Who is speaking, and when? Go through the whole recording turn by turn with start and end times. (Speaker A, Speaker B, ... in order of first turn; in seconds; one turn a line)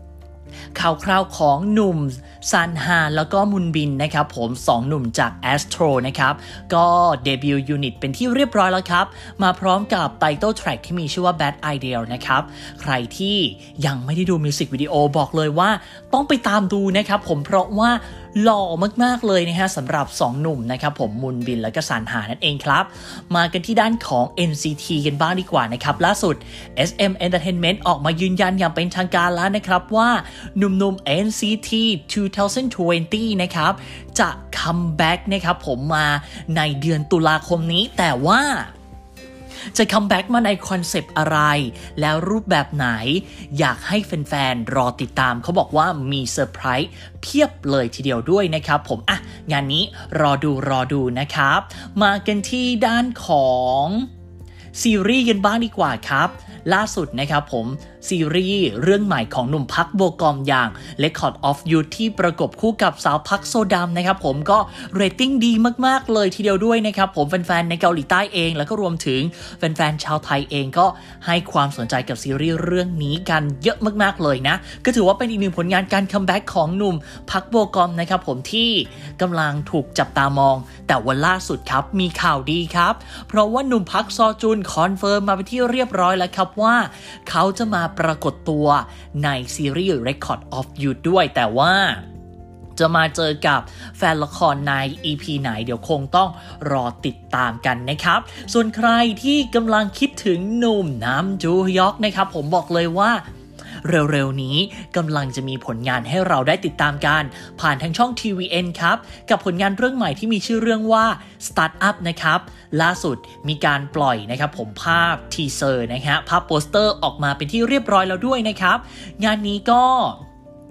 Speaker A: 0.8-38.7
Speaker A: 39.7-54.1
Speaker A: 54.8-92.0
Speaker A: 92.8-103.2
Speaker A: 103.8-120.2